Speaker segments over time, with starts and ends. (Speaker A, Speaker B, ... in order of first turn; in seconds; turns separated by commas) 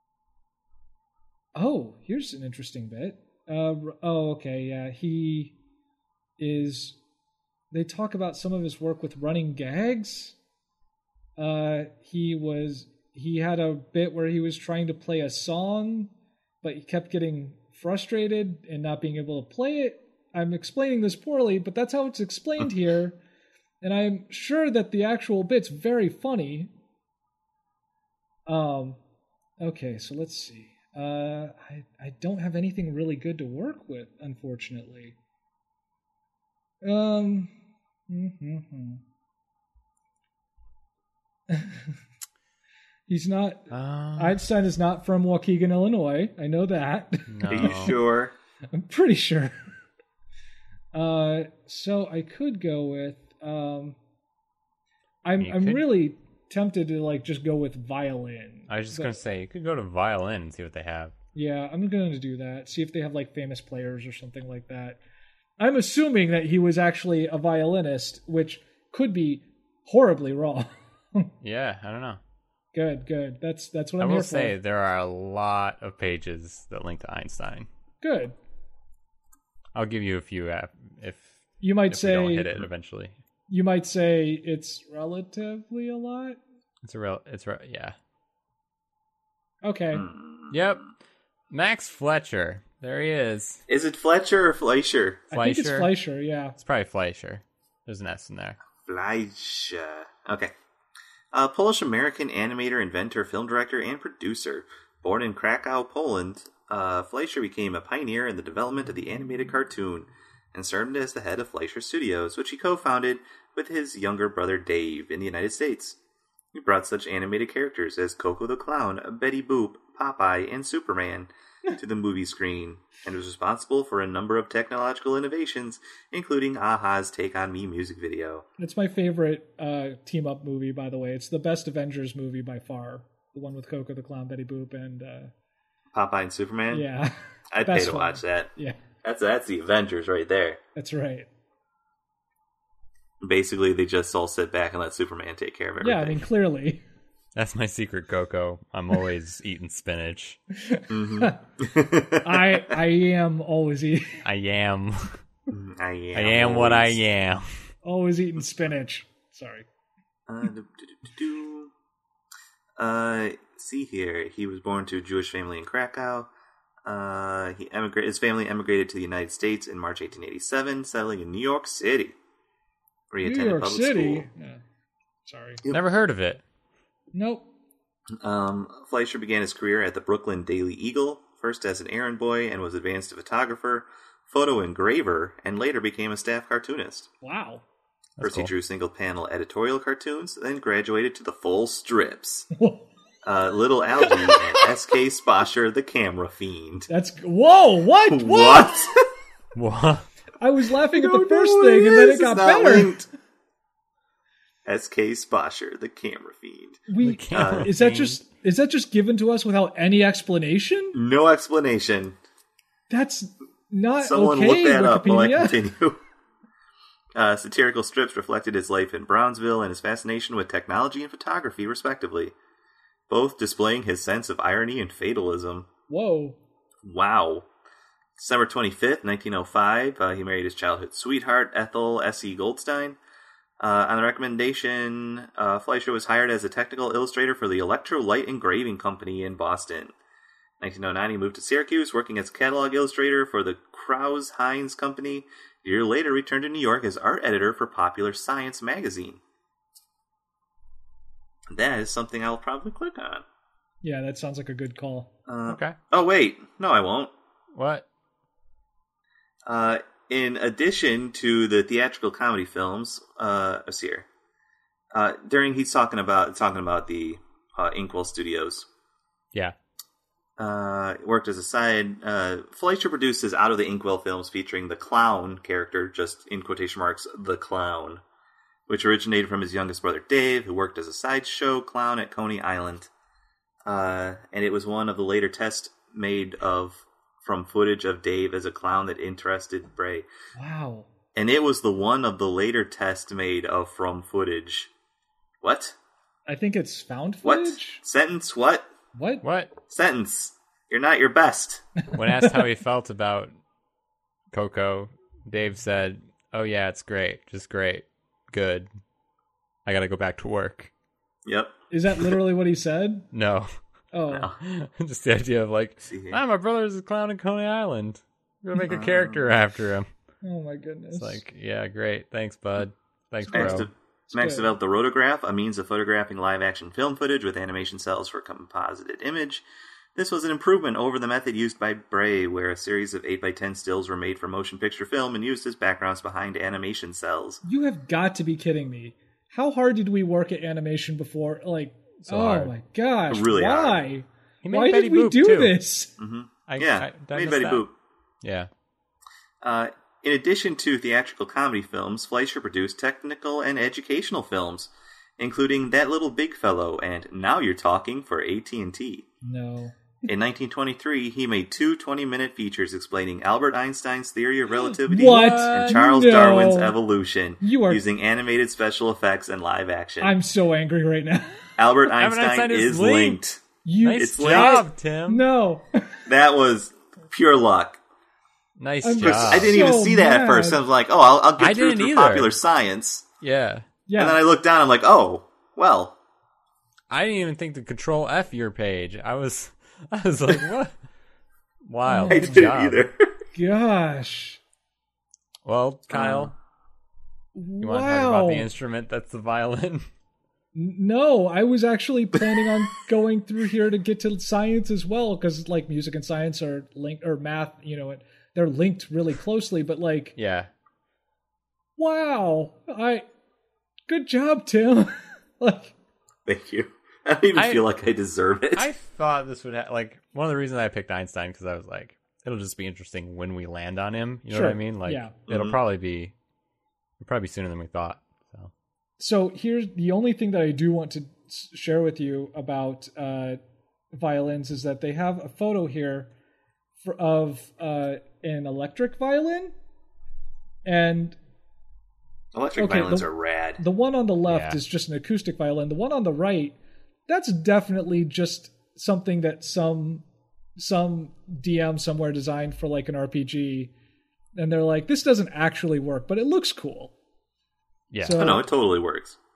Speaker A: 1.6-5.5, Speaker A: 6.4-7.0, Speaker A: 7.7-10.4, Speaker A: 11.4-16.1, Speaker A: 16.6-23.2, Speaker A: 23.8-26.7, Speaker A: 28.5-29.0, Speaker A: 29.6-35.1, Speaker A: 36.8-37.5, Speaker A: 38.1-39.0, Speaker A: 41.5-41.9, Speaker A: 43.1-48.0, Speaker B: 43.7-44.4, Speaker B: 47.3-48.0, Speaker C: 47.5-48.3, Speaker A: 48.7-49.5, Speaker A: 50.9-54.0, Speaker A: 55.2-59.1, Speaker B: 55.4-55.8, Speaker B: 58.7-61.1, Speaker A: 61.4-65.0, Speaker A: 65.6-71.3, Speaker B: 71.4-72.2, Speaker A: 72.7-74.5, Speaker B: 74.0-77.7, Speaker A: 78.0-78.3, Speaker B: 79.8-83.2, Speaker A: 81.6-82.5, Speaker A: 83.5-86.4, Speaker B: 86.8-88.0, Speaker A: 89.6-90.1, Speaker C: 89.9-90.6, Speaker B: 90.5-90.9, Speaker B: 91.5-93.6, Speaker C: 93.7-95.2, Speaker A: 95.3-96.6, Speaker B: 95.3-95.9, Speaker B: 96.6-98.6, Speaker C: 98.8-100.5, Speaker C: 101.3-116.0, Speaker C: 116.5-128.5, Speaker A: 128.6-135.3, Speaker C: 135.9-136.8, Speaker A: 136.7-138.8, Speaker C: 137.5-138.5, Speaker C: 139.0-140.6, Speaker A: 140.8-141.3, Speaker C: 143.2-146.2, Speaker A: 145.8-146.8, Speaker B: 147.3-150.4, Speaker A: 150.6-151.4, Speaker C: 150.9-152.7, Speaker A: 152.2-154.2, Speaker B: 154.2-155.2, Speaker C: 155.5-157.0, Speaker B: 156.2-157.5, Speaker A: 157.8-159.7, Speaker C: 160.3-161.7, Speaker C: 162.8-166.3, Speaker C: 166.8-172.2, Speaker C: 173.1-174.3, Speaker A: 173.2-174.6, Speaker A: 175.3-175.6, Speaker C: 175.6-175.9, Speaker B: 175.7-176.4, Speaker A: 177.1-177.5, Speaker C: 178.2-187.1, Speaker A: 187.2-187.6, Speaker B: 188.2-188.5, Speaker C: 188.2-192.5, Speaker A: 192.5-192.8, Speaker C: 193.2-196.9, Speaker A: 194.0-194.6, Speaker A: 196.9-198.9, Speaker C: 198.1-199.0, Speaker B: 199.6-200.1, Speaker A: 200.4-203.0, Speaker C: 200.9-203.1, Speaker C: 204.7-207.7, Speaker A: 206.9-211.0, Speaker B: 207.0-208.2, Speaker C: 210.9-212.2, Speaker A: 212.9-215.6, Speaker C: 214.0-216.0, Speaker C: 217.2-222.3, Speaker C: 223.1-225.7, Speaker A: 225.9-226.4, Speaker C: 226.8-227.5, Speaker C: 228.2-233.0, Speaker C: 233.6-239.9, Speaker C: 240.6-249.2, Speaker C: 251.5-253.2, Speaker A: 253.8-255.1, Speaker C: 255.3-257.1, Speaker B: 255.5-255.8, Speaker B: 257.5-257.9, Speaker C: 259.5-264.1, Speaker C: 264.9-268.7, Speaker C: 270.4-278.0, Speaker C: 278.7-282.9, Speaker C: 283.7-290.1, Speaker A: 290.4-290.9, Speaker C: 291.2-294.7, Speaker C: 295.4-295.8, Speaker A: 296.3-297.8, Speaker C: 297.2-298.7, Speaker A: 298.9-299.2, Speaker B: 299.2-299.5, Speaker C: 299.7-301.6, Speaker B: 301.9-303.3, Speaker A: 302.0-302.3, Speaker B: 304.3-308.7, Speaker B: 309.7-310.7, Speaker C: 311.2-312.2, Speaker A: 311.7-313.1, Speaker B: 313.1-313.5, Speaker A: 313.9-314.3, Speaker B: 314.4-319.9, Speaker C: 315.8-316.2, Speaker C: 318.6-319.3, Speaker A: 320.2-321.2, Speaker B: 320.9-323.7, Speaker A: 323.3-324.5, Speaker C: 323.3-329.4, Speaker C: 329.9-337.4, Speaker A: 337.4-345.9, Speaker B: 342.1-342.5, Speaker C: 343.1-343.8, Speaker B: 344.4-345.6, Speaker C: 346.0-347.7, Speaker B: 346.5-347.6, Speaker B: 348.2-348.5, Speaker C: 349.4-359.1, Speaker A: 359.2-359.9, Speaker C: 360.1-370.2, Speaker A: 364.9-366.8, Speaker B: 365.0-365.8, Speaker A: 367.4-367.8, Speaker A: 370.0-371.6, Speaker C: 371.6-374.6, Speaker B: 371.9-373.2, Speaker A: 373.6-376.1, Speaker B: 373.8-375.2, Speaker C: 376.1-377.8, Speaker B: 378.6-379.6, Speaker A: 378.8-380.6, Speaker C: 379.0-383.1, Speaker B: 381.4-382.3, Speaker B: 383.2-383.7, Speaker A: 383.9-384.2, Speaker C: 384.0-386.0, Speaker B: 386.9-390.7, Speaker B: 391.7-392.9, Speaker A: 391.9-392.4, Speaker C: 392.1-393.1, Speaker A: 393.4-394.4, Speaker B: 395.4-396.4, Speaker C: 395.9-396.3, Speaker A: 397.4-398.5, Speaker B: 397.6-399.9, Speaker A: 400.6-410.1, Speaker B: 410.2-410.5, Speaker A: 411.8-413.1, Speaker A: 413.9-415.7, Speaker C: 416.3-418.7, Speaker B: 417.4-417.6, Speaker B: 418.6-426.1, Speaker A: 424.3-425.1, Speaker C: 425.3-425.6, Speaker B: 427.0-428.5, Speaker A: 429.0-433.4, Speaker A: 433.9-436.1, Speaker A: 436.8-439.5, Speaker A: 440.6-441.2, Speaker C: 442.3-443.6, Speaker A: 442.6-446.6, Speaker B: 444.3-444.6, Speaker A: 447.1-450.0, Speaker A: 450.6-453.7, Speaker A: 454.4-456.9, Speaker B: 457.9-458.3, Speaker A: 458.0-458.5, Speaker C: 458.2-459.2